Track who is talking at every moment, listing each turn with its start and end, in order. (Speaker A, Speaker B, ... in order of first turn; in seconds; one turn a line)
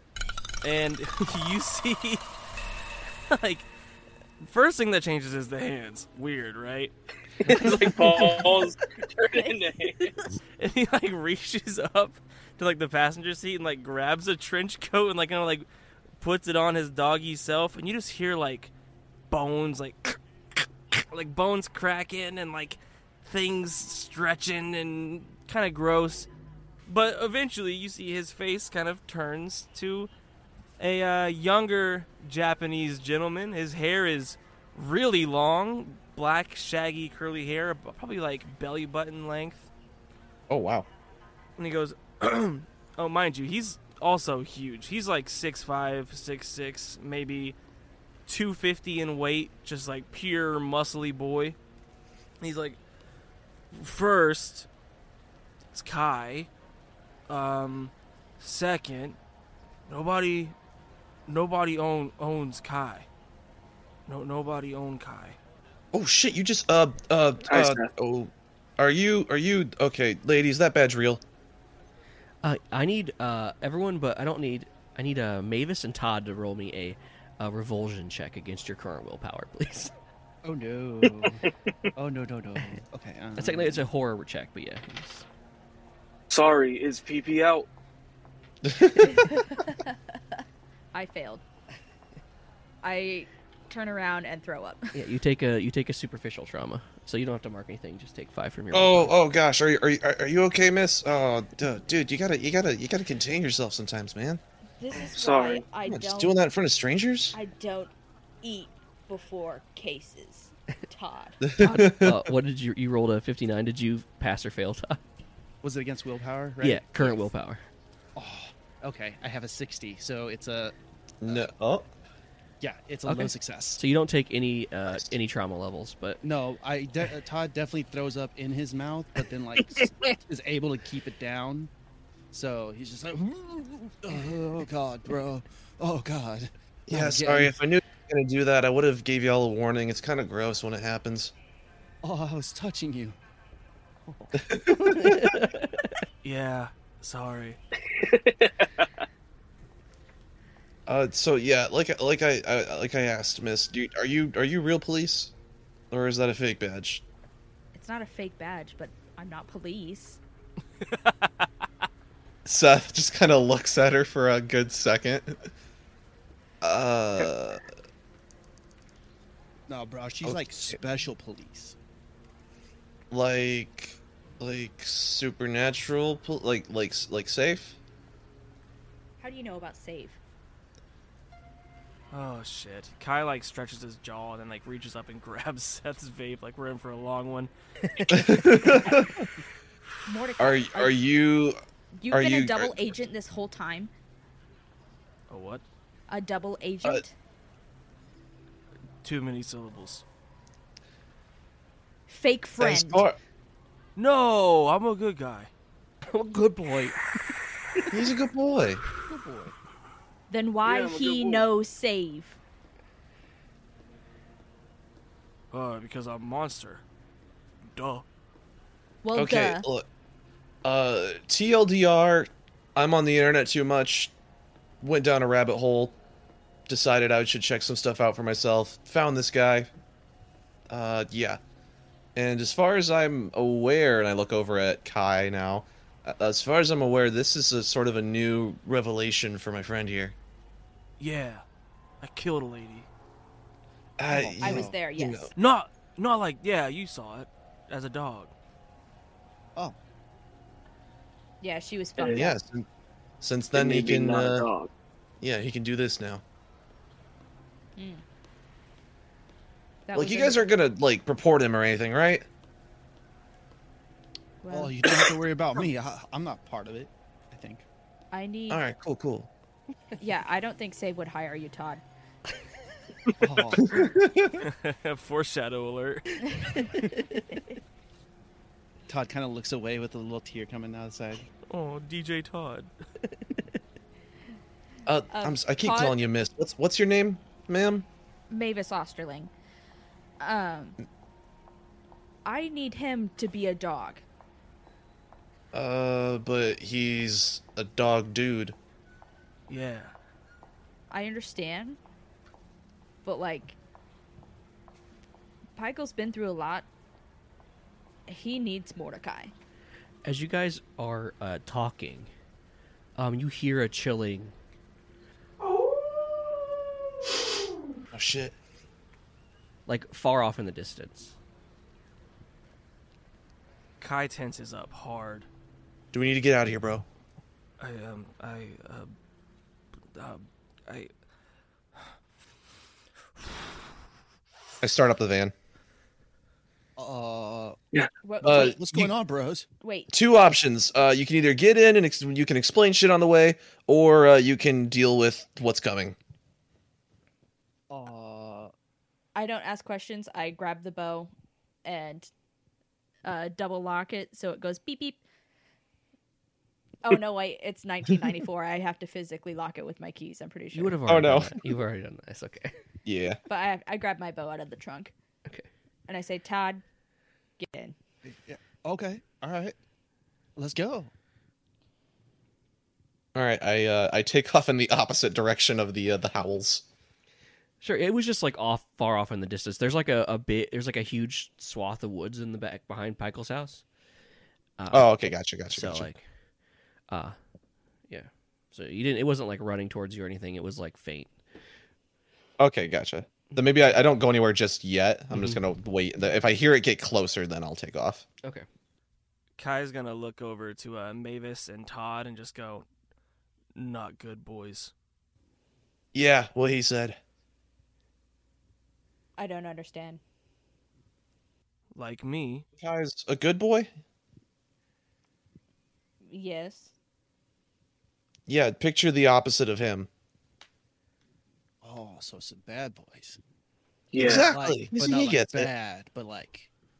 Speaker A: 0.6-2.2
Speaker A: 3.3-3.7
Speaker A: 4.4-6.9
Speaker B: 7.4-10.1
Speaker A: 7.4-8.6
Speaker A: 10.6-15.7
Speaker A: 16.2-18.7
Speaker A: 19.3-26.3
Speaker A: 26.9-30.1
Speaker A: 30.8-39.7
Speaker C: 40.5-40.9
Speaker A: 41.6-47.5
Speaker A: 48.3-51.5
Speaker A: 52.4-52.8
Speaker A: 53.7-54.7
Speaker A: 55.7-56.5
Speaker A: 57.3-59.2
Speaker A: 59.9-60.5
Speaker A: 61.3-63.1
Speaker A: 64.1-65.4
Speaker C: 65.9-71.2
Speaker B: 67.5-67.9
Speaker D: 72.4-79.9
Speaker E: 80.4-81.4
Speaker E: 82.0-83.9
Speaker D: 83.4-85.2
Speaker B: 86.3-87.7
Speaker C: 88.6-89.2
Speaker F: 89.0-90.0
Speaker F: 90.9-91.4
Speaker F: 92.8-95.0
Speaker D: 94.9-99.1
Speaker C: 98.7-104.4
Speaker F: 104.8-106.4
Speaker B: 105.0-105.6
Speaker C: 105.8-107.3
Speaker F: 107.3-111.8
Speaker C: 111.4-112.3
Speaker D: 111.6-115.0
Speaker E: 115.6-117.3
Speaker D: 116.6-117.6
Speaker E: 118.2-120.7
Speaker C: 121.2-121.9
Speaker E: 122.6-123.8
Speaker D: 123.0-126.2
Speaker E: 126.2-131.7
Speaker E: 132.3-137.5
Speaker C: 136.9-141.3
Speaker E: 142.0-143.2
Speaker E: 144.1-145.2
Speaker C: 144.5-145.3
Speaker D: 145.0-145.9
Speaker A: 146.2-147.6
Speaker B: 147.9-148.9
Speaker C: 150.9-155.3
Speaker C: 155.9-157.0
Speaker F: 157.7-160.2
Speaker C: 162.4-165.5
Speaker C: 166.6-167.6
Speaker E: 169.7-171.8
Speaker C: 170.2-170.8
Speaker C: 173.1-177.8
Speaker F: 179.2-180.2
Speaker A: 182.1-187.5
Speaker D: 187.8-188.4
Speaker C: 188.1-189.2
Speaker F: 190.1-191.0
Speaker C: 190.4-191.6
Speaker F: 191.9-193.9
Speaker C: 192.1-192.9
Speaker A: 195.3-195.6
Speaker F: 196.1-197.1
Speaker A: 199.0-200.0
Speaker F: 202.1-203.1
Speaker C: 202.6-203.2
Speaker A: 203.9-205.5
Speaker D: 206.0-207.0
Speaker C: 207.9-208.8
Speaker D: 208.9-209.5
Speaker F: 210.3-212.4
Speaker B: 210.6-211.4
Speaker A: 215.5-216.8
Speaker A: 217.7-218.0
Speaker F: 219.0-219.7
Speaker C: 219.1-219.9
Speaker C: 220.6-224.1
Speaker C: 224.8-225.9
Speaker C: 226.7-229.7
Speaker C: 230.7-231.4
Speaker C: 232.2-240.1
Speaker A: 241.0-241.4
Speaker A: 242.0-242.9
Speaker C: 244.0-245.3
Speaker E: 244.1-244.7
Speaker F: 244.4-245.3
Speaker A: 245.3-248.3
Speaker F: 251.4-252.4
Speaker B: 252.0-252.2
Speaker C: 252.1-252.7
Speaker C: 253.2-254.5
Speaker B: 253.5-254.7
Speaker C: 255.2-256.2
Speaker F: 257.8-258.0
Speaker F: 259.9-260.4
Speaker C: 259.9-262.3
Speaker F: 264.4-264.8
Speaker E: 264.5-267.6
Speaker F: 268.1-268.6
Speaker C: 268.5-269.3
Speaker F: 270.0-271.8
Speaker E: 273.2-273.9
Speaker C: 273.6-274.4
Speaker A: 274.4-276.6
Speaker D: 276.9-277.4
Speaker E: 278.9-281.3
Speaker A: 281.5-282.7
Speaker D: 283.1-283.5
Speaker C: 284.9-287.9
Speaker F: 285.1-286.0
Speaker F: 288.3-289.3
Speaker F: 290.2-290.8
Speaker F: 292.2-294.0
Speaker C: 295.5-298.6
Speaker A: 299.5-299.9
Speaker F: 300.9-301.8
Speaker F: 303.0-303.6
Speaker F: 305.6-306.7
Speaker F: 308.1-309.3
Speaker D: 310.0-312.1
Speaker D: 313.0-314.3
Speaker C: 317.9-318.4
Speaker D: 319.6-321.1
Speaker A: 323.8-325.3
Speaker C: 325.9-326.8
Speaker A: 327.6-328.9
Speaker A: 329.9-330.9
Speaker C: 334.6-335.3
Speaker E: 336.8-337.6
Speaker F: 338.0-338.6
Speaker C: 338.2-338.9
Speaker E: 338.2-339.4
Speaker F: 339.6-339.9
Speaker C: 339.9-345.9
Speaker E: 347.7-348.5
Speaker F: 349.1-351.1
Speaker F: 351.6-352.1
Speaker F: 353.0-355.0
Speaker F: 356.8-360.8
Speaker D: 360.5-362.6
Speaker C: 360.9-361.5
Speaker C: 362.9-363.2
Speaker F: 363.3-364.9
Speaker F: 365.9-366.6
Speaker F: 367.4-367.7
Speaker E: 368.0-369.6
Speaker E: 370.4-370.9
Speaker C: 373.1-376.6
Speaker D: 377.6-383.6
Speaker D: 384.6-386.0
Speaker C: 384.7-385.9
Speaker D: 386.9-387.2
Speaker D: 387.9-391.1
Speaker C: 392.4-398.1
Speaker D: 395.1-395.4
Speaker A: 399.4-402.7
Speaker A: 403.5-404.7
Speaker C: 405.9-407.0
Speaker F: 409.2-410.0
Speaker A: 411.7-412.4
Speaker C: 412.6-413.7
Speaker F: 416.1-416.7
Speaker C: 418.3-419.9
Speaker E: 421.6-423.2
Speaker B: 423.9-424.3
Speaker C: 423.9-425.5
Speaker E: 424.0-426.5